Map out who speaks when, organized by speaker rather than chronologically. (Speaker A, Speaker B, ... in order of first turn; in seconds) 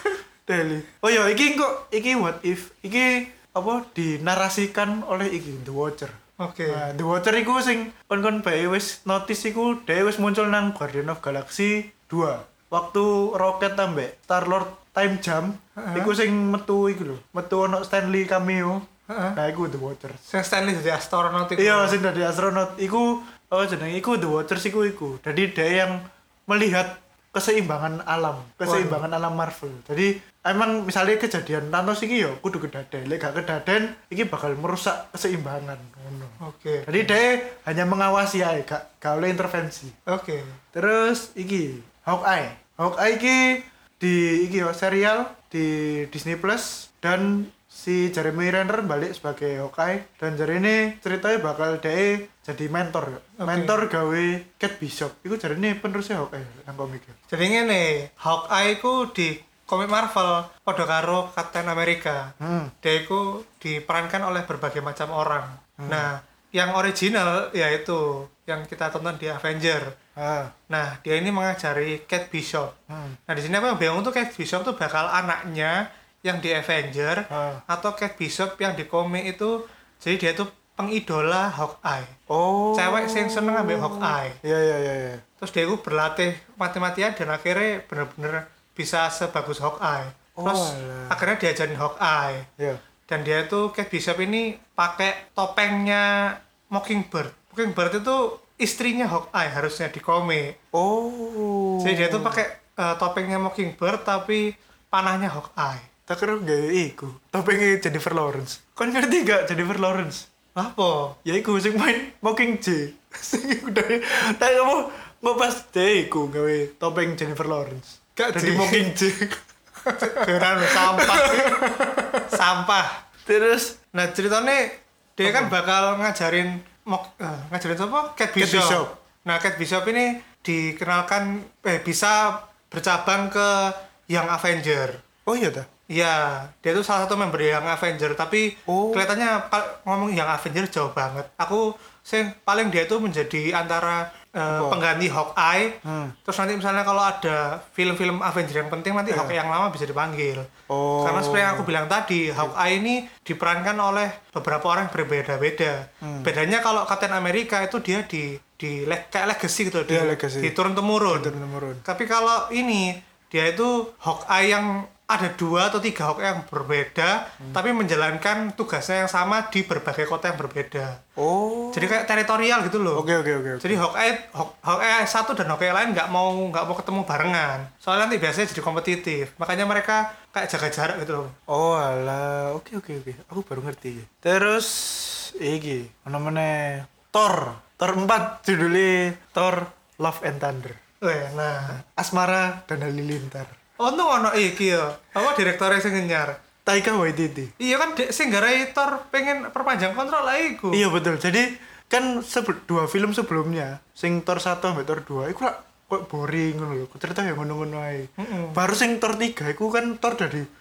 Speaker A: 0.5-6.2, 6.7-20.2, 21.6-40.0, 40.7-57.2, 62.4-62.7, 65.8-66.1, 70.2-70.5, 72.9-73.2, 77.3-77.6, 82.3-85.2, 90.4-91.3, 100.7-102.4, 106.1-110.3, 111.2-122.4, 123.2-123.8, 125.2-125.5, 128.4-128.9, 135.3-135.7, 138.7-139.1, 144.5-144.8, 145.8-146.2, 149.1-149.4, 150.7-151.7, 156.0-156.3, 159.9-160.5, 161.1-161.8, 171.2-172.0, 172.9-173.8, 181.5-190.8, 191.6-193.6, 196.7-197.5, 200.7-210.5
Speaker B: 6.4-6.9, 15.8-16.1, 19.1-19.4, 20.3-22.0, 28.6-29.0, 36.4-37.1, 40.1-40.6, 53.4-53.8, 57.3-69.9, 70.7-72.8, 73.3-82.2, 82.8-84.4, 85.4-92.5, 93.1-100.6, 101.8-105.9, 110.5-111.2, 118.2-118.9, 119.9-121.8, 122.3-123.0, 123.9-135.0, 135.9-150.5, 151.0-171.0, 171.7-173.1, 173.6-181.3, 191.0-191.8, 193.8-196.4, 197.6-200.8, 208.2-208.6